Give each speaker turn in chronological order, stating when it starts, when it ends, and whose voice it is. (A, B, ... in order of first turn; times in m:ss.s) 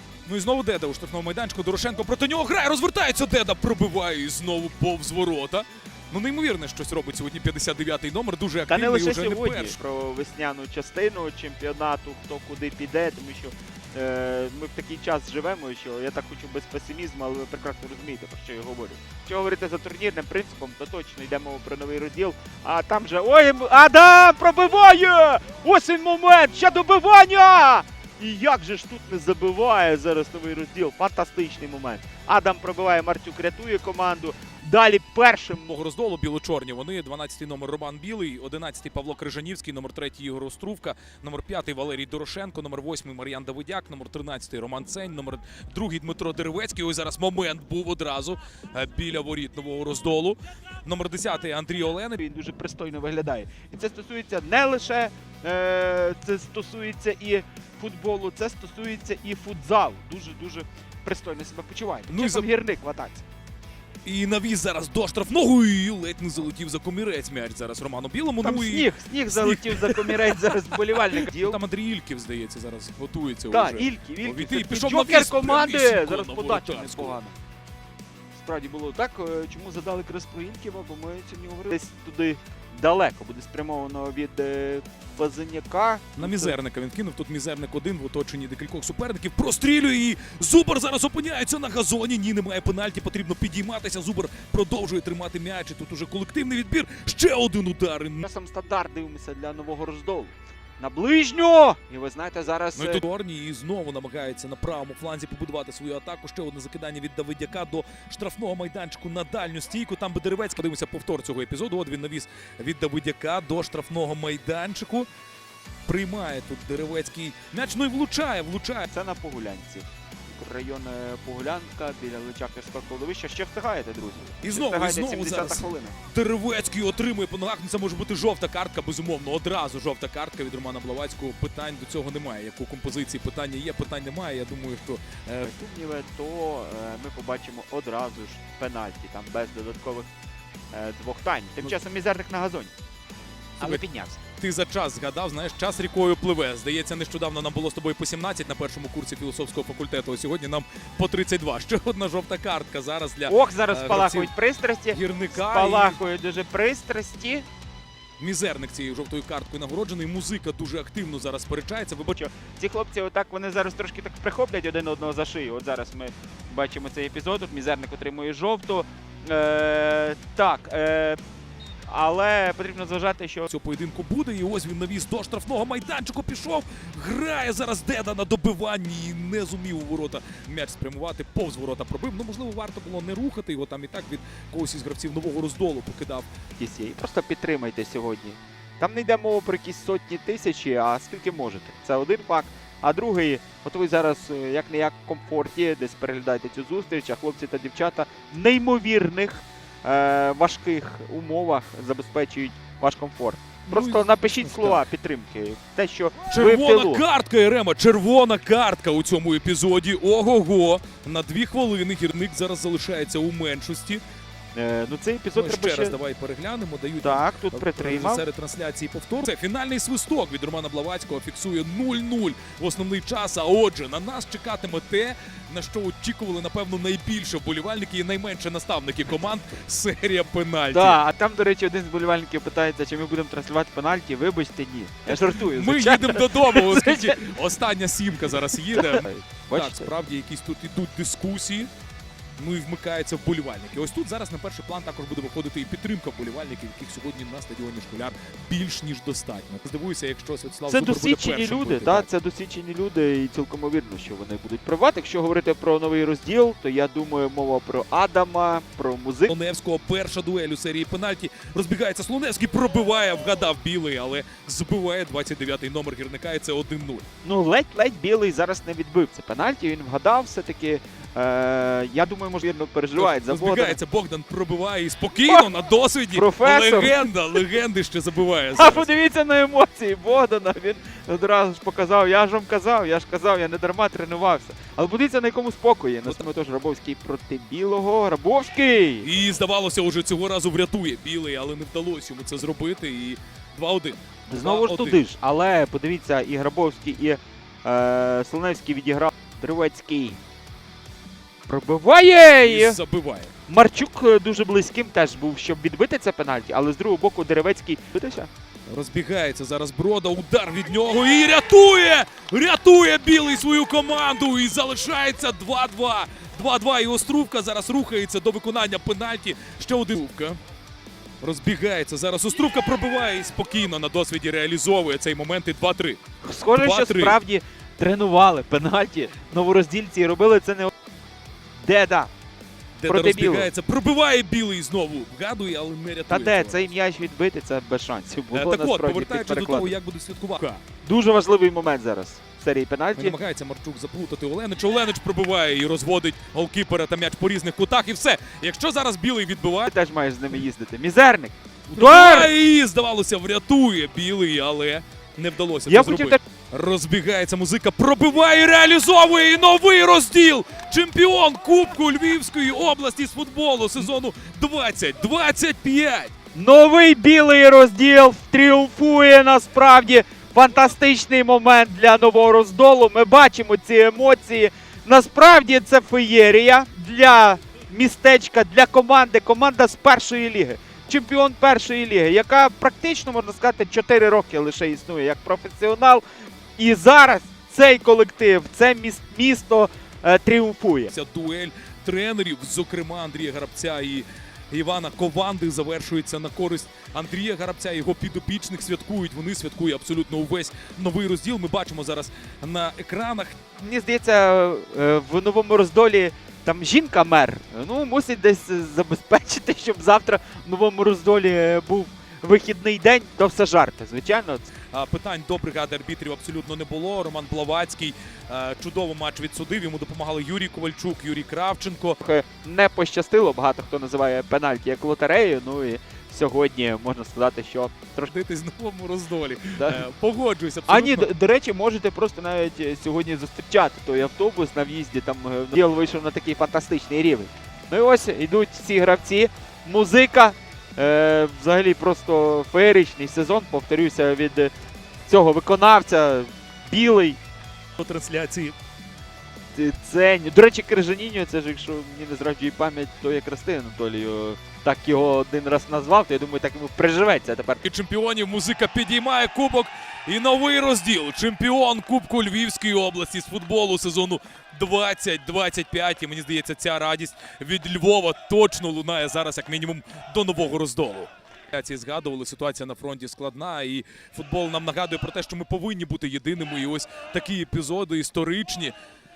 0:00.3-0:09.8 A
0:08.7-0:35.7 B
0:35.7-0:52.2 A
0:52.2-1:03.2 B
1:02.1-1:02.5 A
1:04.0-1:10.4 A
1:08.4-1:11.6 B
1:11.2-1:17.2 A
1:13.5-1:17.4 B
1:18.3-1:26.6 B
1:26.2-1:38.3 A
1:38.2-1:43.0 B
1:42.8-1:55.1 A
1:55.9-1:58.9 A
1:58.9-2:06.0 B
2:04.4-2:15.5 A
2:15.4-2:20.1 B
2:20.7-2:22.7 B
2:23.6-2:24.2 B
2:24.4-2:34.3 A
2:33.3-2:37.5 B
2:34.9-2:36.0 A
2:38.2-2:42.2 A
2:42.1-2:51.2 B
2:51.9-2:53.5 B
2:53.5-3:06.3 A
3:06.6-3:27.0 B
3:23.7-3:24.8 A
3:26.3-3:34.0 A
3:34.6-3:36.0 B
3:35.4-3:51.0 A
3:37.0-3:38.2 B
3:50.7-3:57.3 B
3:55.1-4:01.7 A
3:58.7-3:59.9 B
4:02.4-4:12.1 A
4:10.7-4:19.3 B
4:19.3-4:27.1 A
4:27.2-4:33.8 B
4:33.0-4:38.9 A
4:35.2-4:35.5 B
4:36.1-4:37.4 B
4:38.6-4:49.1 B
4:49.0-4:55.0 A
4:54.3-5:00.2 B
5:01.5-5:02.8 B
5:02.4-5:03.3 A
5:03.5-5:08.3 B
5:08.7-5:20.4 A
5:21.2-5:26.0 A
5:26.2-5:30.7 B
5:26.6-5:27.2 A
5:31.6-5:32.1 B
5:32.8-5:36.7 A
5:32.9-5:33.5 B
5:36.1-5:39.8 B
5:38.3-5:40.6 A
5:40.8-5:43.2 B
5:43.0-5:49.7 A
5:49.6-5:52.3 B
5:51.7-6:06.1 A
5:55.7-5:56.2 B
6:06.3-6:26.0 B
6:26.6-6:30.9 B
6:30.9-6:43.4 A
6:43.6-6:54.5 B
6:54.7-7:02.0 A
7:02.0-7:08.1 B
7:08.0-7:11.1 A
7:09.6-7:09.8 B
7:10.7-7:24.5 B
7:25.1-7:27.2 B
7:27.8-7:28.6 A
7:29.6-7:37.6 B
7:37.6-7:58.7 A